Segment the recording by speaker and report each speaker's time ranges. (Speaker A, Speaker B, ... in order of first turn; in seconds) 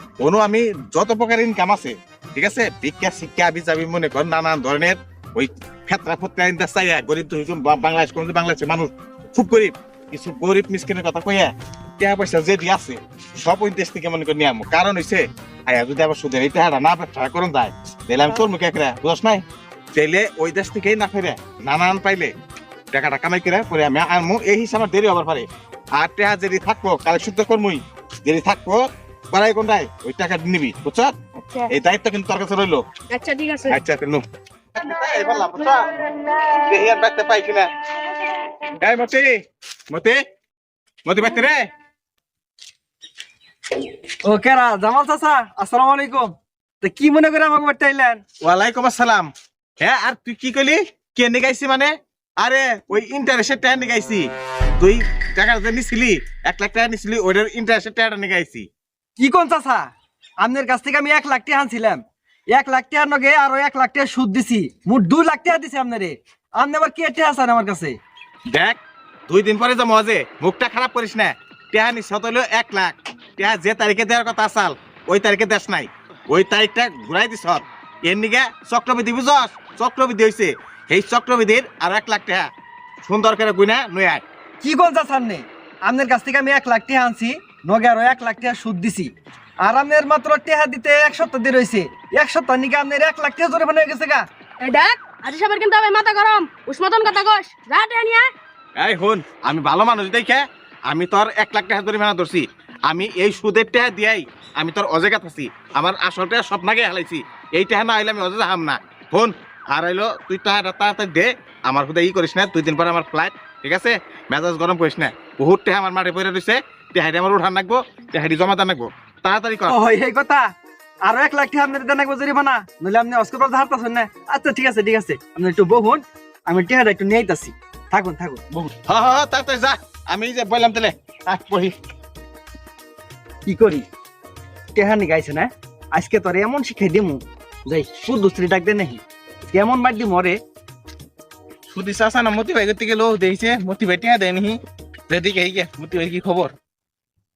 Speaker A: 0.2-19.4, 19.9-22.3, 22.9-31.1, 31.7-32.8, 33.7-34.2, 34.8-35.9, 36.6-37.7, 38.8-39.4, 39.9-40.2, 41.0-41.7, 48.4-54.3, 54.8-58.7, 68.5-68.8, 69.3-82.5, 83.0-84.2, 98.8-119.8, 128.9-131.7
Speaker B: 31.4-31.7, 33.1-33.8, 94.6-98.3
Speaker C: 44.2-48.2, 59.2-59.9, 60.4-68.0, 84.6-89.1, 89.6-94.2, 119.7-120.5, 121.0-128.7, 133.5-133.9, 134.8-140.4
Speaker D: 141.7-146.6